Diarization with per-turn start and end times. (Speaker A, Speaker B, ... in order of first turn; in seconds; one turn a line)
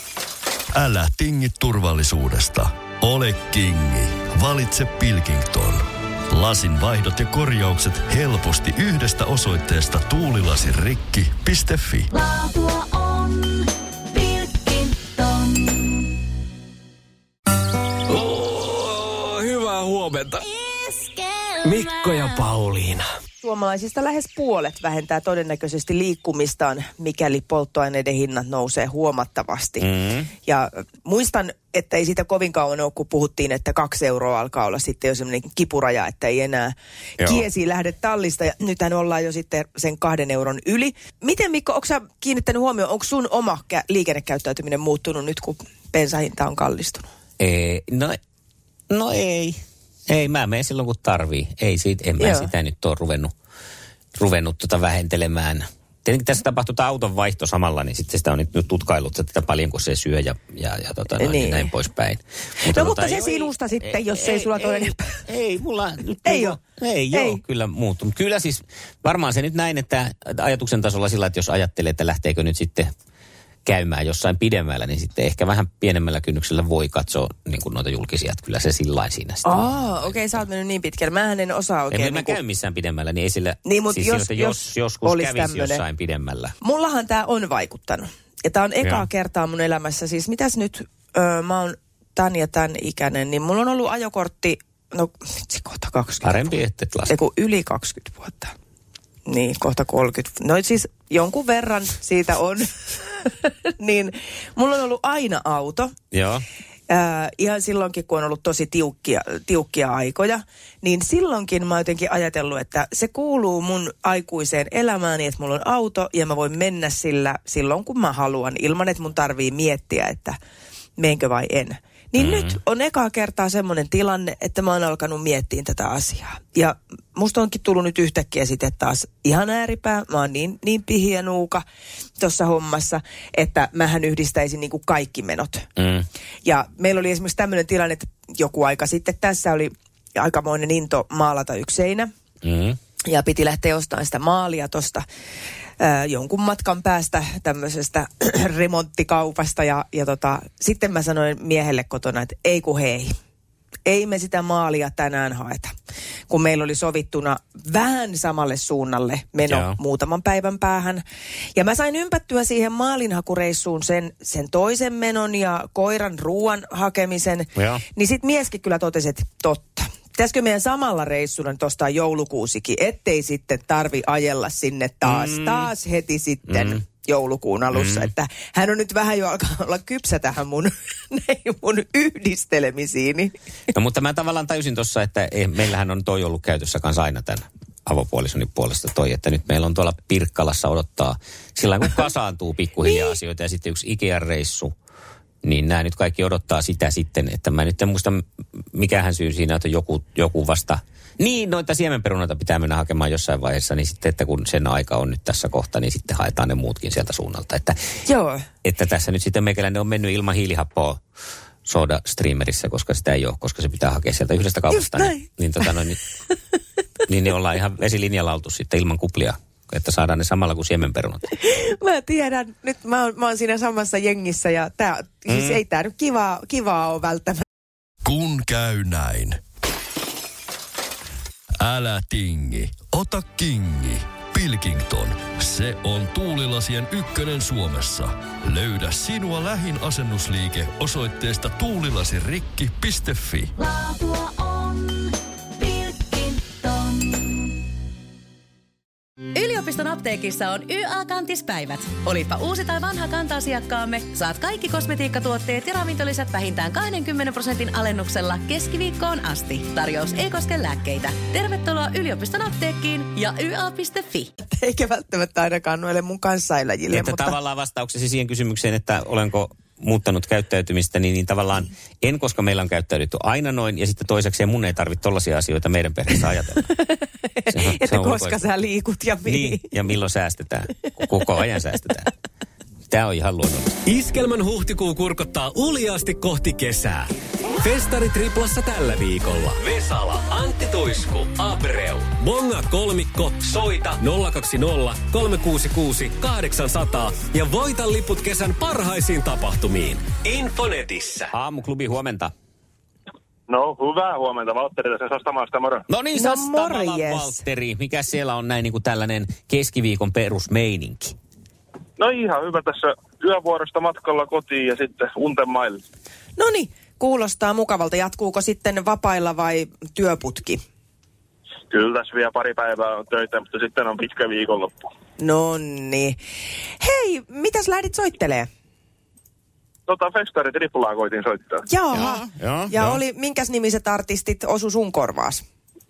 Speaker A: 0.7-12.1
Speaker B: 12.2-15.5
Speaker C: 18.1-20.4
Speaker B: 20.8-22.4
Speaker C: 21.6-23.1
Speaker D: 23.4-29.9
Speaker E: 29.8-30.3
Speaker D: 30.4-47.1
Speaker E: 47.4-48.2
Speaker E: 48.9-53.3
Speaker D: 52.2-52.5
Speaker E: 54.2-72.9
Speaker D: 61.2-61.7
Speaker D: 62.7-65.2
Speaker D: 66.2-66.6
Speaker D: 67.1-67.4
Speaker E: 73.7-80.4
Speaker D: 79.4-82.4
Speaker E: 81.9-86.5
Speaker D: 83.7-85.8
Speaker D: 86.6-96.5
Speaker E: 96.2-97.1
Speaker D: 97.1-98.5
Speaker D: 99.3-105.9
Speaker E: 106.1-106.5
Speaker D: 106.9-120.4
Speaker D: 121.0-131.6
Speaker E: 122.2-122.6
Speaker D: 132.2-135.7
Speaker E: 135.8-136.1
Speaker D: 136.4-142.1
Speaker E: 142.4-142.8
Speaker D: 143.1-145.0
Speaker D: 145.8-153.1
Speaker D: 153.9-155.7
Speaker D: 156.3-161.0
Speaker E: 159.4-159.8
Speaker D: 161.6-183.3
Speaker E: 167.6-167.8
Speaker E: 175.1-175.7
Speaker E: 176.5-176.8
Speaker E: 177.7-178.1
Speaker E: 183.7-194.7
Speaker D: 192.8-193.1
Speaker E: 195.4-207.8
Speaker D: 208.1-208.4
Speaker E: 208.7-211.0
Speaker E: 211.7-216.0
Speaker D: 214.7-215.9
Speaker E: 217.1-221.3
Speaker D: 221.3-227.4
Speaker E: 225.3-225.6
Speaker A: 228.0-229.4
Speaker A: 231.6-243.5
Speaker B: 243.6-247.0
Speaker F: 249.3-264.3
Speaker D: 264.4-267.4
Speaker E: 266.9-276.7
Speaker D: 276.8-279.7
Speaker E: 277.5-278.4
Speaker E: 279.2-282.1
Speaker E: 282.9-283.8
Speaker C: 283.9-301.3
Speaker E: 301.3-302.3
Speaker G: 303.5-305.8
Speaker E: 305.9-311.1
Speaker D: 306.1-307.4
Speaker G: 312.0-315.8
Speaker D: 316.4-320.6
Speaker G: 321.7-324.9
Speaker D: 325.2-326.2
Speaker D: 326.8-328.5
Speaker G: 329.9-331.6
Speaker D: 331.7-335.4
Speaker E: 331.9-333.0